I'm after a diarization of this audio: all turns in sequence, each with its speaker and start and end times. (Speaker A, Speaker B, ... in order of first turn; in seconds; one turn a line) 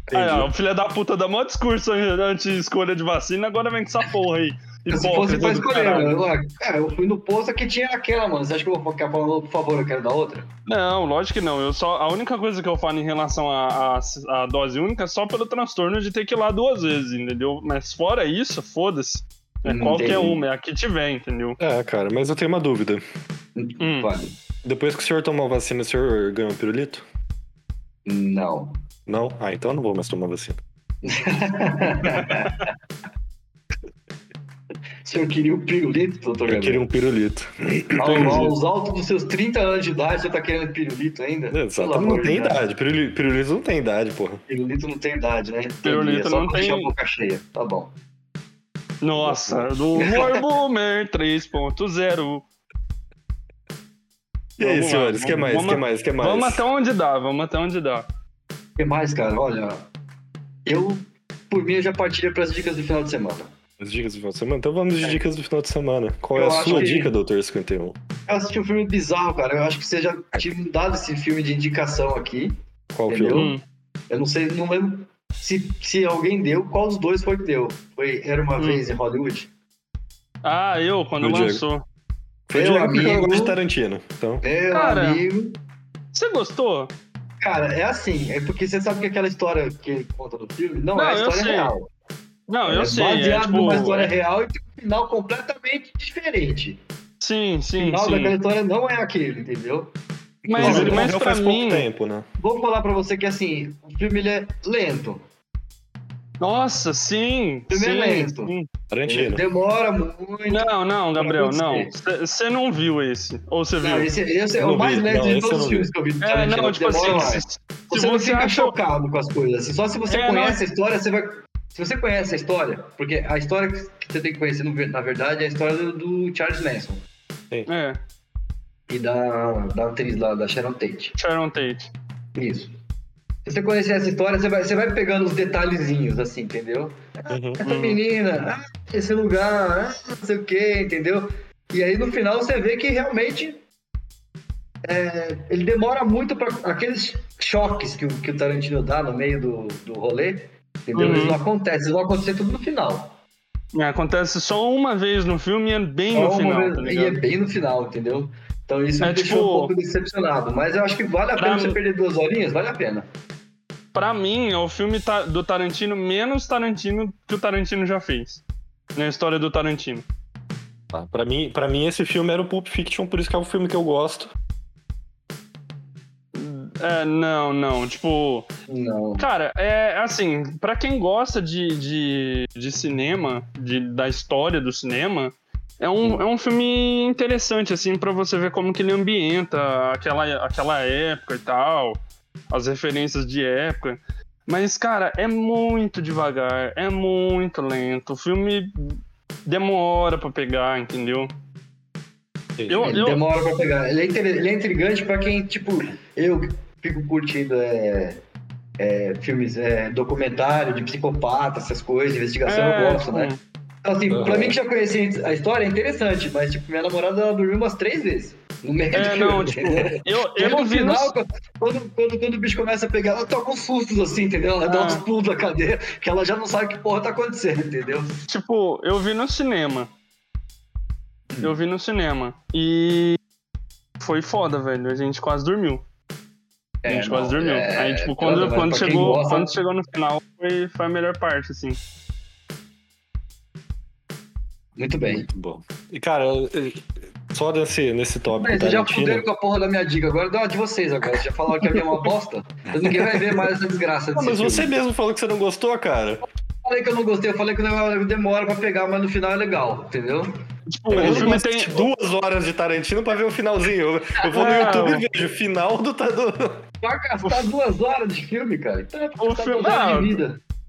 Speaker A: 0.1-0.5
Speaker B: 0.1-6.2
Speaker C: 4.9-10.5
Speaker B: 10.7-21.6
Speaker C: 19.6-20.4
Speaker A: 21.6-23.0
Speaker C: 23.5-24.4
Speaker B: 23.8-24.1
Speaker A: 24.6-27.0
Speaker C: 28.1-28.8
Speaker A: 29.1-30.6
Speaker C: 31.0-32.7
Speaker C: 35.0-36.8
Speaker A: 36.5-38.5
Speaker C: 37.9-42.6
Speaker B: 38.0-38.5
Speaker A: 41.5-44.4
Speaker C: 44.5-47.9
Speaker B: 45.8-46.9
Speaker B: 49.0-52.5
Speaker A: 49.1-49.7
Speaker C: 50.0-50.4
Speaker A: 54.6-56.6
Speaker B: 54.6-58.1
Speaker C: 58.8-59.9
Speaker C: 60.6-63.5
Speaker A: 63.8-68.0
Speaker C: 66.3-67.1
Speaker C: 68.3-72.6
Speaker A: 72.9-73.5
Speaker C: 73.1-73.5
Speaker B: 73.3-73.6
Speaker C: 74.1-79.5
Speaker B: 78.6-78.8
Speaker B: 80.4-81.8
Speaker A: 81.2-81.6
Speaker A: 82.5-84.4
Speaker C: 82.5-83.6
Speaker C: 84.4-85.6
Speaker B: 84.7-85.2
Speaker B: 86.1-86.9
Speaker C: 87.4-91.9
Speaker B: 90.9-91.7
Speaker B: 92.5-94.1
Speaker C: 92.7-96.8
Speaker B: 97.2-98.3
Speaker C: 97.8-99.9
Speaker A: 100.5-102.2
Speaker B: 100.5-101.9
Speaker C: 100.6-101.1
Speaker C: 102.4-105.2
Speaker B: 106.4-108.7
Speaker C: 107.7-108.5
Speaker A: 108.9-109.4
Speaker C: 109.1-111.9
Speaker B: 110.5-114.1
Speaker C: 113.8-127.0
Speaker A: 114.6-115.9
Speaker B: 116.2-118.7
Speaker B: 120.1-120.6
Speaker B: 127.7-128.0
Speaker C: 128.9-131.2
Speaker B: 131.2-131.9
Speaker C: 132.3-132.8
Speaker C: 133.4-143.6
Speaker A: 137.3-137.6
Speaker B: 137.6-138.0
Speaker C: 144.8-153.2
Speaker B: 150.9-151.4
Speaker B: 153.7-157.2
Speaker C: 156.1-163.1
Speaker B: 159.0-159.7
Speaker B: 161.4-161.8
Speaker B: 163.9-168.4
Speaker B: 168.9-170.1
Speaker A: 170.9-174.3
Speaker B: 176.3-178.5
Speaker C: 178.7-179.3
Speaker B: 179.2-192.0
Speaker B: 192.5-201.3
Speaker A: 202.6-202.9
Speaker B: 202.7-203.2
Speaker C: 202.8-208.2
Speaker C: 208.8-213.3
Speaker B: 212.4-213.4
Speaker C: 213.8-228.2
Speaker A: 214.1-214.6
Speaker B: 218.9-221.1
Speaker B: 224.7-225.0
Speaker B: 228.3-229.9
Speaker B: 231.4-233.2
Speaker B: 234.0-235.8
Speaker C: 236.8-239.5
Speaker B: 236.9-241.8
Speaker C: 244.8-245.3
Speaker A: 245.1-249.2
Speaker C: 248.3-254.7
Speaker A: 252.8-253.4
Speaker A: 254.2-256.2
Speaker C: 256.6-260.3
Speaker B: 260.7-261.9
Speaker C: 260.9-261.3
Speaker A: 260.9-266.6
Speaker B: 264.4-265.0
Speaker C: 266.8-270.4
Speaker B: 269.2-270.2